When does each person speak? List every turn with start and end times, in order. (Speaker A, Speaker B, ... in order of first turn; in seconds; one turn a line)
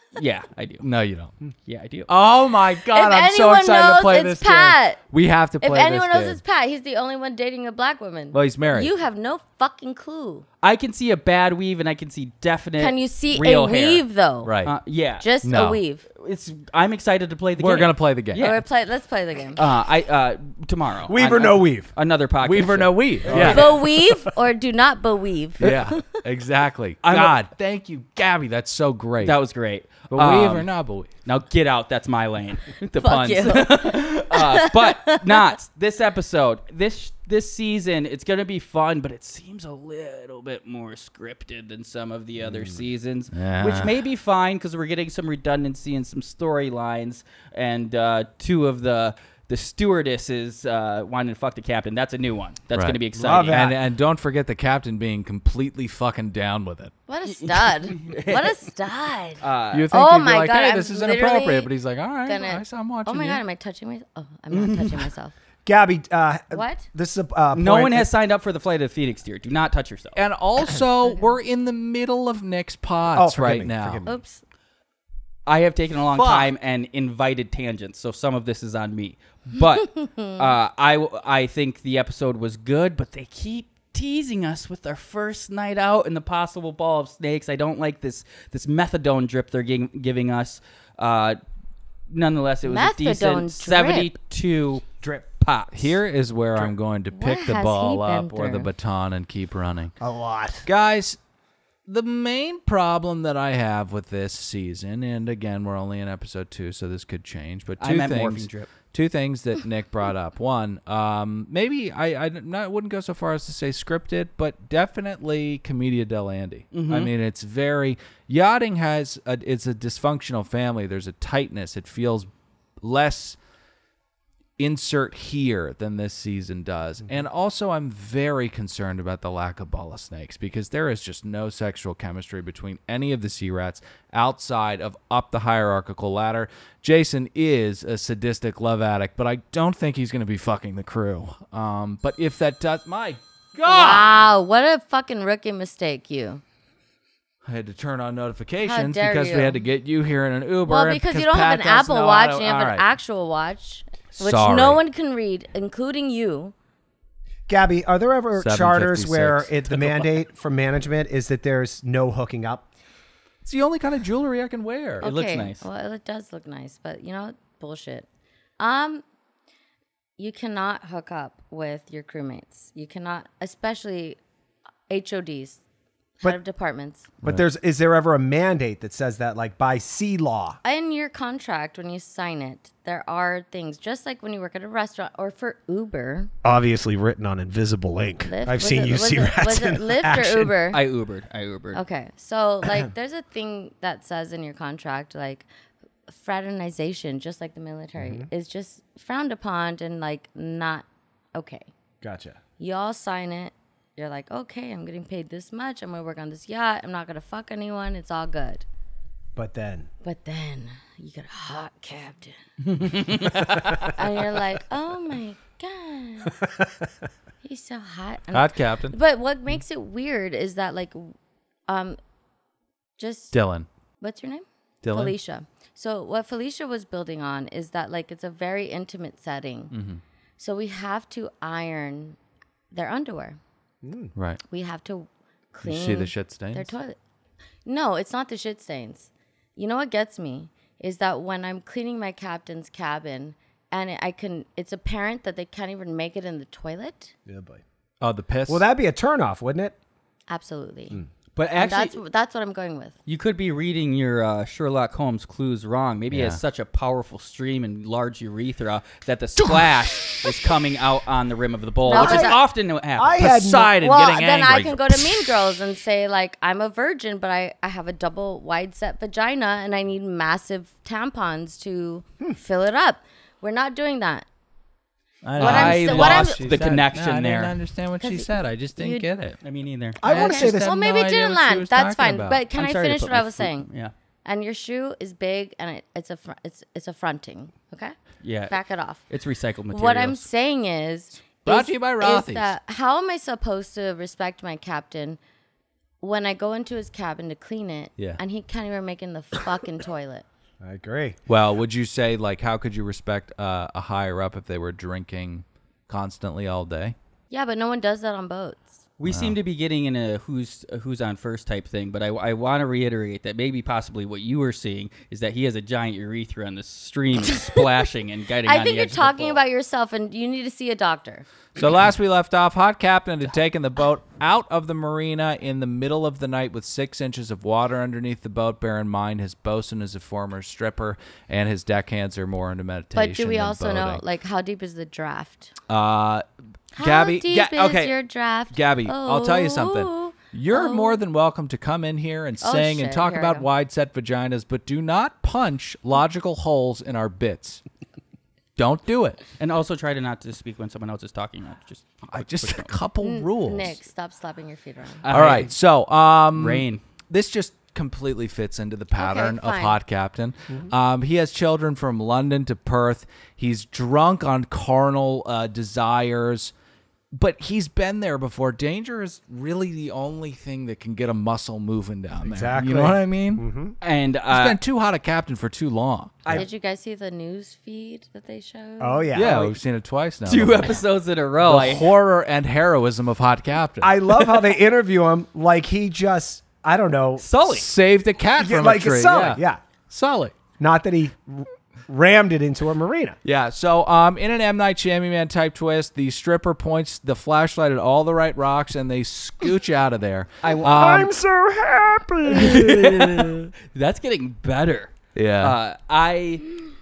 Speaker A: 0.1-0.8
Speaker B: 0.8-1.3
Speaker A: 1.6-2.1
Speaker B: 2.1-6.4
Speaker C: 2.9-5.0
Speaker C: 5.6-10.5
Speaker B: 8.3-8.9
Speaker A: 10.6-14.0
Speaker C: 12.8-14.5
Speaker B: 14.4-14.8
Speaker A: 14.6-15.3
Speaker C: 15.2-16.1
Speaker B: 15.4-15.8
Speaker A: 16.1-18.6
Speaker B: 17.6-18.5
Speaker C: 18.4-19.6
Speaker A: 19.6-23.6
Speaker D: 21.1-21.9
Speaker B: 22.4-23.8
Speaker D: 23.2-24.1
Speaker C: 23.3-26.1
Speaker B: 25.6-29.4
Speaker A: 27.0-27.3
Speaker A: 29.2-30.7
Speaker B: 30.1-31.1
Speaker A: 31.2-53.8
Speaker C: 33.0-35.5
Speaker B: 43.3-43.9
Speaker B: 52.7-56.9
Speaker D: 53.1-53.7
Speaker C: 57.1-61.7
Speaker A: 57.2-58.6
Speaker A: 59.4-59.9
Speaker B: 59.7-63.4
Speaker C: 62.2-65.3
Speaker A: 64.5-65.1
Speaker D: 65.7-68.1
Speaker C: 66.5-66.8
Speaker A: 67.5-70.2
Speaker B: 70.2-74.0
Speaker D: 73.1-74.2
Speaker C: 74.0-74.4
Speaker A: 75.5-91.4
Speaker B: 76.1-76.5
Speaker C: 80.0-80.3
Speaker A: 92.1-94.8
Speaker C: 92.6-94.1
Speaker A: 95.4-95.9
Speaker B: 95.7-99.9
Speaker C: 97.1-98.7
Speaker D: 100.0-100.7
Speaker B: 100.7-101.2
Speaker B: 101.8-122.3
Speaker A: 107.8-108.7
Speaker A: 116.7-117.1
Speaker B: 122.8-123.4
Speaker B: 124.6-144.1
Speaker C: 143.7-146.4
Speaker B: 147.4-152.9
Speaker C: 148.6-149.6
Speaker C: 150.6-156.5
Speaker B: 154.1-154.8
Speaker D: 157.5-162.7
Speaker B: 158.4-160.1
Speaker B: 163.4-165.0
Speaker A: 165.0-165.7
Speaker C: 165.0-168.1
Speaker C: 168.6-169.0
Speaker C: 170.2-174.2
Speaker C: 174.9-175.6
Speaker C: 176.2-177.1
Speaker D: 177.2-180.6
Speaker C: 180.6-186.3
Speaker D: 186.4-190.5
Speaker C: 188.2-190.8
Speaker A: 190.7-191.8
Speaker C: 191.7-195.5
Speaker C: 196.1-201.7
Speaker D: 198.0-198.3
Speaker D: 202.0-202.4
Speaker C: 202.6-208.6
Speaker D: 209.3-209.9
Speaker C: 210.0-212.4
Speaker A: 212.6-214.0
Speaker C: 213.4-216.4
Speaker D: 216.4-216.9
Speaker C: 217.4-221.1
Speaker B: 218.3-219.0
Speaker C: 221.7-222.0
Speaker C: 223.0-223.3
Speaker B: 223.3-223.7
Speaker C: 224.0-229.7
Speaker B: 224.8-225.1
Speaker B: 229.7-230.0
Speaker C: 230.4-232.2
Speaker C: 232.7-233.4
Speaker D: 233.8-234.1
Speaker C: 234.5-237.0
Speaker B: 235.6-236.7
Speaker C: 237.6-247.1
Speaker D: 247.2-247.6
Speaker B: 248.0-248.6
Speaker D: 248.5-249.7
Speaker C: 250.3-251.0
Speaker A: 251.3-251.9
Speaker C: 251.6-252.9
Speaker A: 253.1-263.2
Speaker B: 256.1-256.4
Speaker B: 259.4-260.3
Speaker C: 261.8-262.4
Speaker B: 261.9-262.4
Speaker D: 263.0-263.7
Speaker B: 263.2-265.6
Speaker C: 263.7-274.2
Speaker A: 275.2-277.5
Speaker B: 275.2-279.4
Speaker C: 275.4-276.5
Speaker C: 278.0-279.1
Speaker A: 279.4-280.0
Speaker C: 280.0-283.7
Speaker D: 280.0-280.7
Speaker B: 280.0-282.4
Speaker A: 282.5-283.9
Speaker C: 284.2-287.9
Speaker A: 288.2-288.5
Speaker C: 288.5-289.1
Speaker A: 289.1-290.2
Speaker C: 289.7-295.2
Speaker B: 291.4-292.5
Speaker C: 296.0-300.2
Speaker D: 300.6-301.2
Speaker B: 301.3-306.9
Speaker C: 307.3-308.8
Speaker A: 309.0-319.4
Speaker B: 309.1-309.4
Speaker C: 317.2-317.6
Speaker C: 318.4-321.3
Speaker B: 321.6-334.0
Speaker C: 332.9-335.5
Speaker B: 335.7-336.2
Speaker B: 336.8-337.9
Speaker C: 336.8-341.0
Speaker B: 338.5-347.6
Speaker C: 342.4-343.5
Speaker B: 348.6-349.2
Speaker A: 349.4-352.7
Speaker B: 352.1-353.8
Speaker C: 353.0-355.0
Speaker A: 355.0-355.5
Speaker B: 355.1-366.5
Speaker A: 356.3-356.8
Speaker C: 358.9-359.8
Speaker B: 367.1-373.4
Speaker D: 372.2-373.7
Speaker A: 373.8-374.6
Speaker B: 374.3-376.2
Speaker C: 376.3-379.4
Speaker D: 378.8-379.6
Speaker B: 379.1-380.8
Speaker A: 380.2-381.9
Speaker B: 381.4-384.0
Speaker D: 383.8-387.2
Speaker A: 387.2-387.6
Speaker B: 387.5-390.4
Speaker D: 388.4-389.6
Speaker D: 390.6-393.2
Speaker B: 393.2-401.1
Speaker A: 400.4-400.8
Speaker D: 400.6-403.3
Speaker A: 402.3-406.4
Speaker B: 405.1-405.6